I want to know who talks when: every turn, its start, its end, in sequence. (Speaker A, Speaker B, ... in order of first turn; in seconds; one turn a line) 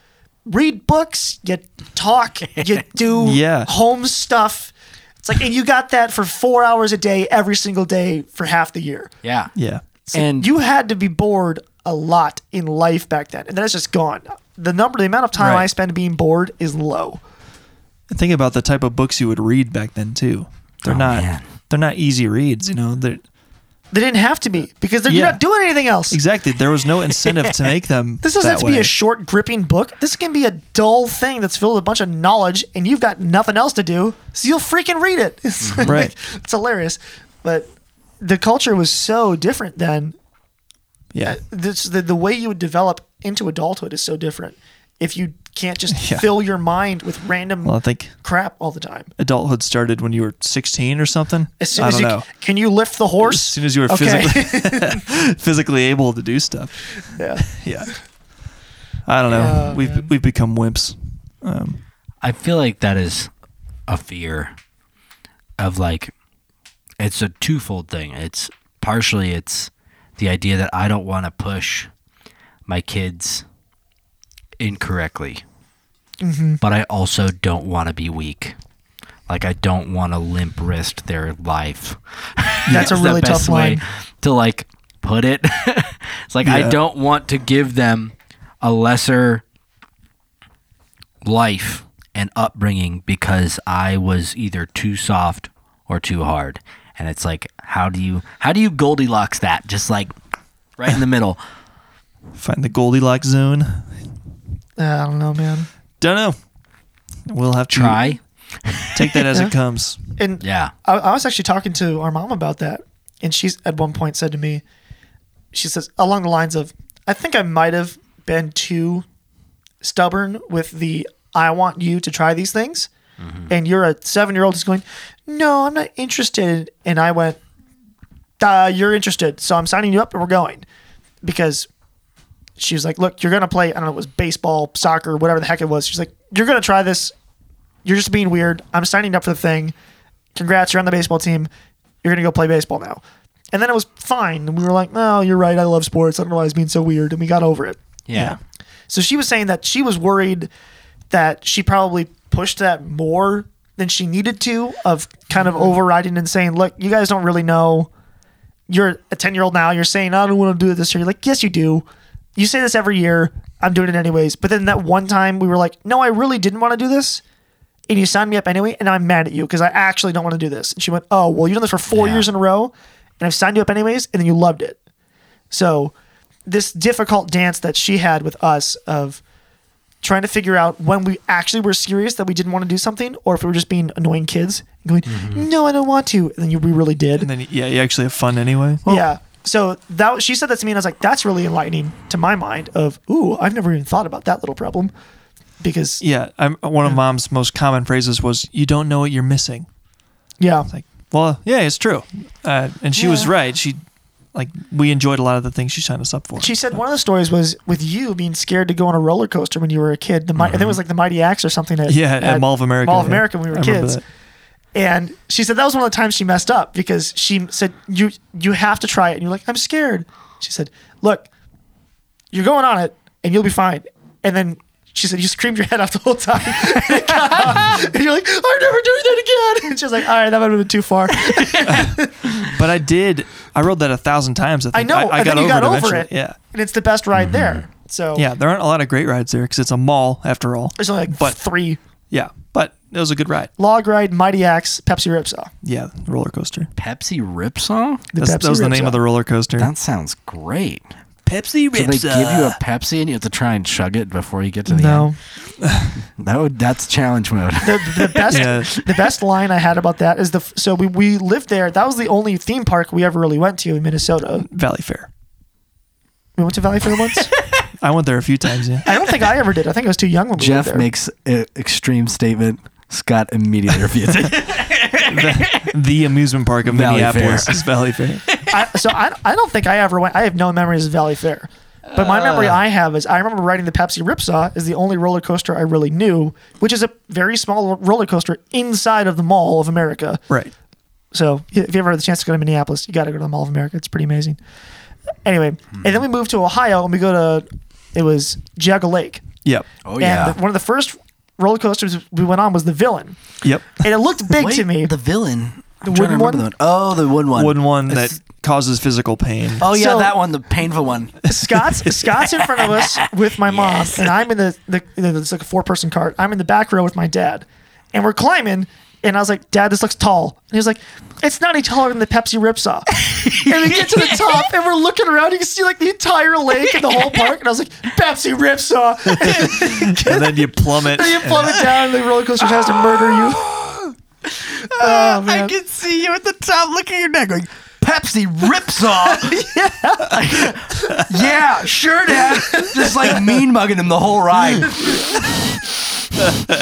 Speaker A: 0.5-9.1
Speaker B: 3.2-3.7
Speaker C: 9.2-9.5
Speaker B: 9.6-9.8
Speaker A: 10.1-17.2
Speaker C: 10.1-10.5
Speaker B: 15.4-15.7
Speaker B: 18.1-23.2
Speaker C: 20.9-21.4
Speaker A: 23.9-26.2
Speaker B: 25.1-25.4
Speaker B: 26.1-28.9
Speaker C: 27.2-27.5
Speaker A: 28.2-37.7
Speaker C: 35.6-36.0
Speaker B: 35.9-36.1
Speaker A: 38.2-40.2
Speaker B: 41.1-41.4
Speaker A: 41.2-49.1
Speaker B: 46.0-46.3
Speaker B: 47.6-48.1
Speaker B: 49.2-52.3
Speaker A: 51.6-55.0
Speaker B: 53.2-58.0
Speaker A: 57.2-57.5
Speaker B: 59.1-61.8
Speaker C: 59.3-59.6
Speaker A: 59.3-60.1
Speaker C: 62.2-63.3
Speaker C: 63.9-64.5
Speaker C: 65.6-66.1
Speaker C: 67.0-71.9
Speaker C: 72.7-73.5
Speaker C: 74.6-75.4
Speaker A: 76.2-76.6
Speaker C: 76.6-78.6
Speaker C: 79.3-89.4
Speaker B: 82.7-83.0
Speaker A: 82.7-83.8
Speaker B: 86.4-86.8
Speaker C: 91.2-100.1
Speaker C: 100.8-101.4
Speaker B: 102.3-104.0
Speaker A: 104.8-105.7
Speaker B: 106.0-106.4
Speaker B: 107.3-108.2
Speaker C: 107.7-109.2
Speaker B: 108.9-110.0
Speaker A: 110.2-114.6
Speaker C: 110.4-110.7
Speaker A: 115.5-119.0
Speaker A: 119.8-122.9
Speaker C: 123.2-123.5
Speaker A: 123.5-127.4
Speaker A: 128.4-130.7
Speaker A: 131.2-131.7
Speaker A: 132.6-137.1
Speaker A: 137.8-139.7
Speaker A: 140.3-141.5
Speaker A: 142.0-143.0
Speaker A: 143.5-147.8
Speaker C: 148.1-148.4
Speaker A: 148.9-150.5
Speaker A: 151.1-157.9
Speaker A: 158.7-167.2
Speaker A: 167.9-174.8
Speaker C: 171.9-172.3
Speaker A: 175.5-175.9
Speaker A: 176.5-179.2
Speaker A: 180.0-187.3
Speaker C: 185.1-185.5
Speaker B: 187.2-188.9
Speaker A: 188.9-194.9
Speaker A: 195.6-196.0
Speaker B: 196.0-199.7
Speaker A: 200.4-200.7
Speaker B: 200.7-203.8
Speaker A: 202.9-203.3
Speaker B: 204.3-206.8
Speaker A: 206.4-214.0
Speaker C: 210.4-210.8
Speaker B: 211.9-214.0
Speaker A: 214.8-221.3
Speaker A: 222.3-232.2
Speaker B: 231.6-236.4
Speaker A: 234.7-238.3
Speaker C: 237.2-237.6
Speaker B: 238.2-241.4
Speaker A: 240.8-241.8
Speaker B: 242.1-243.5
Speaker A: 243.6-245.5
Speaker B: 245.6-246.7
Speaker C: 246.8-248.1
Speaker A: 248.1-249.0
Speaker B: 248.2-249.7
Speaker C: 249.6-250.9
Speaker B: 251.3-252.6
Speaker C: 251.7-255.1
Speaker A: 254.7-255.2
Speaker B: 255.6-256.0
Speaker C: 256.1-259.0
Speaker A: 257.6-264.5
Speaker B: 258.3-258.7
Speaker B: 264.4-265.1
Speaker A: 266.4-267.3
Speaker C: 267.3-267.6
Speaker B: 267.8-268.9
Speaker A: 268.9-270.9
Speaker C: 270.4-275.7
Speaker B: 275.1-278.3
Speaker C: 276.7-277.7
Speaker C: 278.3-278.6
Speaker A: 278.5-290.2
Speaker C: 281.9-282.6
Speaker A: 291.1-294.4
Speaker A: 295.2-299.3
Speaker C: 299.9-300.4
Speaker A: 300.0-303.2
Speaker B: 303.4-303.9
Speaker A: 303.8-304.9
Speaker C: 304.4-308.2
Speaker A: 305.8-306.5
Speaker B: 307.3-309.7
Speaker C: 309.6-311.2
Speaker A: 309.6-310.1
Speaker A: 311.3-333.5
Speaker B: 311.8-312.2
Speaker C: 312.4-314.1
Speaker C: 323.0-324.5
Speaker C: 326.7-327.3
Speaker B: 329.1-331.7
Speaker C: 332.6-346.2
Speaker A: 334.7-335.6
Speaker A: 339.0-341.1
Speaker A: 342.4-343.2